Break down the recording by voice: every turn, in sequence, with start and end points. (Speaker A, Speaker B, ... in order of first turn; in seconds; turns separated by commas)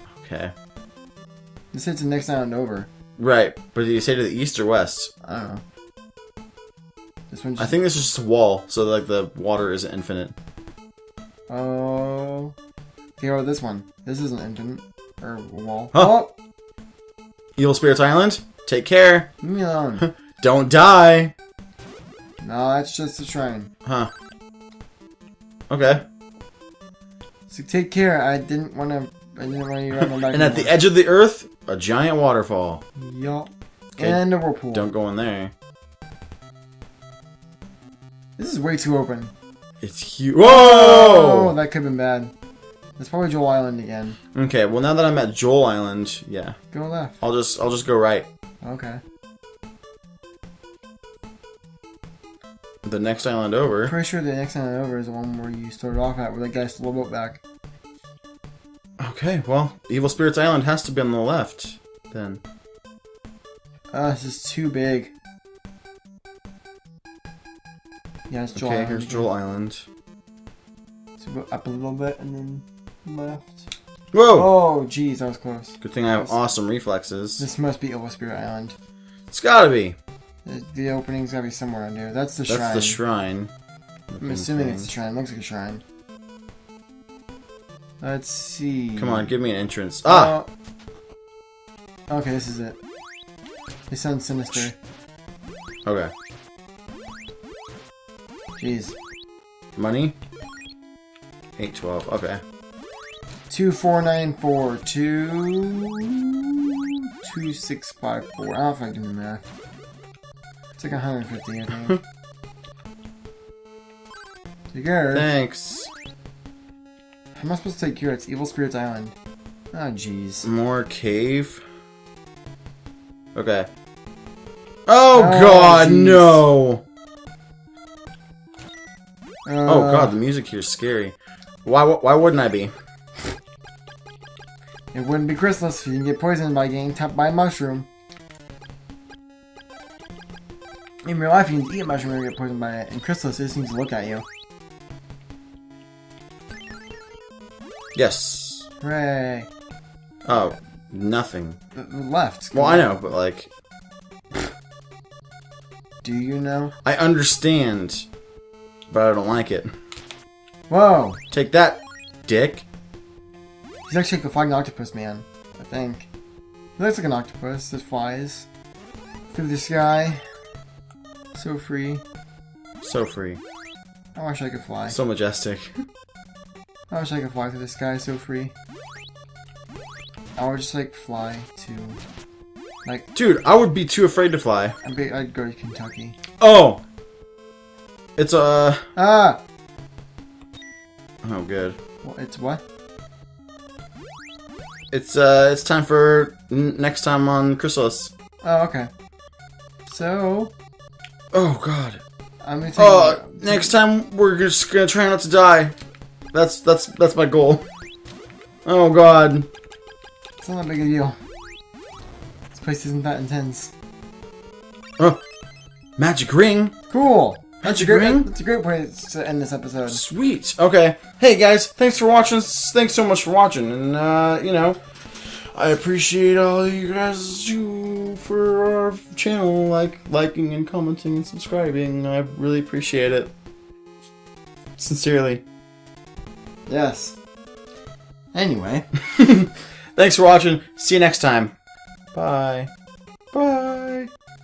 Speaker A: 0.2-0.5, Speaker B: 1.7-2.9, Speaker A: 3.2-5.1, Speaker B: 5.2-5.6, Speaker B: 7.3-7.8, Speaker A: 7.6-10.3, Speaker B: 11.5-12.5, Speaker B: 13.2-16.3, Speaker A: 17.6-19.3, Speaker B: 19.4-20.1, Speaker A: 20.0-21.4, Speaker B: 22.4-23.7, Speaker A: 23.9-24.1, Speaker A: 25.7-26.0, Speaker B: 27.5-30.8, Speaker A: 29.9-32.8, Speaker B: 33.0-34.9, Speaker A: 34.7-35.5, Speaker B: 38.4-39.3, Speaker A: 39.8-41.5, Speaker B: 40.4-42.3, Speaker B: 43.0-44.2, Speaker A: 44.4-46.5, Speaker B: 46.7-47.2, Speaker A: 47.2-48.3, Speaker B: 48.6-49.0, Speaker A: 52.9-53.9, Speaker B: 53.8-57.4, Speaker A: 59.0-62.4, Speaker B: 63.9-65.1, Speaker B: 68.3-69.3, Speaker A: 68.5-69.8, Speaker B: 71.2-73.7, Speaker A: 74.1-74.5, Speaker B: 74.3-76.4, Speaker A: 75.8-77.4, Speaker B: 77.4-78.8, Speaker A: 79.3-80.0, Speaker B: 80.5-83.0, Speaker A: 82.5-83.5, Speaker A: 84.1-84.9, Speaker B: 84.2-85.8, Speaker B: 88.0-89.3, Speaker A: 89.0-90.3, Speaker B: 90.1-90.5, Speaker B: 92.1-92.8, Speaker B: 93.9-94.8, Speaker A: 95.8-96.1, Speaker B: 98.6-99.0, Speaker A: 99.8-100.2, Speaker A: 101.6-102.4, Speaker B: 103.5-106.0, Speaker B: 107.2-109.4, Speaker B: 110.8-112.0, Speaker B: 114.7-115.3, Speaker A: 115.1-115.9, Speaker B: 117.3-119.2, Speaker B: 119.7-120.5, Speaker A: 120.4-121.6, Speaker A: 123.3-123.7, Speaker A: 124.9-126.8, Speaker B: 125.1-126.5, Speaker B: 129.5-130.2, Speaker A: 129.7-132.7, Speaker B: 134.9-137.9, Speaker B: 141.0-144.2, Speaker A: 148.0-148.7, Speaker B: 148.8-149.5, Speaker A: 150.2-151.6, Speaker B: 151.8-152.9, Speaker A: 152.5-153.5, Speaker B: 156.0-156.7, Speaker A: 156.8-158.1, Speaker A: 158.9-159.7, Speaker B: 160.7-161.2, Speaker A: 161.3-162.7, Speaker B: 163.9-166.1, Speaker B: 166.8-168.5, Speaker B: 169.3-170.2, Speaker B: 171.3-172.0, Speaker A: 172.8-173.4, Speaker B: 174.2-175.0, Speaker A: 174.9-175.8, Speaker B: 176.9-178.5, Speaker B: 180.4-182.0, Speaker A: 183.2-184.8, Speaker B: 184.8-186.2, Speaker A: 186.4-186.8, Speaker A: 188.2-188.9, Speaker B: 188.9-189.4, Speaker A: 191.2-191.8, Speaker B: 192.0-192.6, Speaker A: 194.9-198.1, Speaker B: 198.4-198.9, Speaker B: 199.8-200.5, Speaker A: 201.3-202.0, Speaker B: 202.4-203.7, Speaker A: 202.8-205.8, Speaker A: 206.3-207.6, Speaker A: 208.7-209.5, Speaker B: 210.4-211.2, Speaker B: 212.5-213.7, Speaker A: 216.0-216.7, Speaker B: 216.9-220.0, Speaker A: 217.6-218.3, Speaker A: 219.9-233.3, Speaker A: 234.8-235.4, Speaker B: 236.7-237.2, Speaker B: 238.3-238.9, Speaker A: 239.2-241.5, Speaker A: 242.1-242.7, Speaker A: 243.3-244.1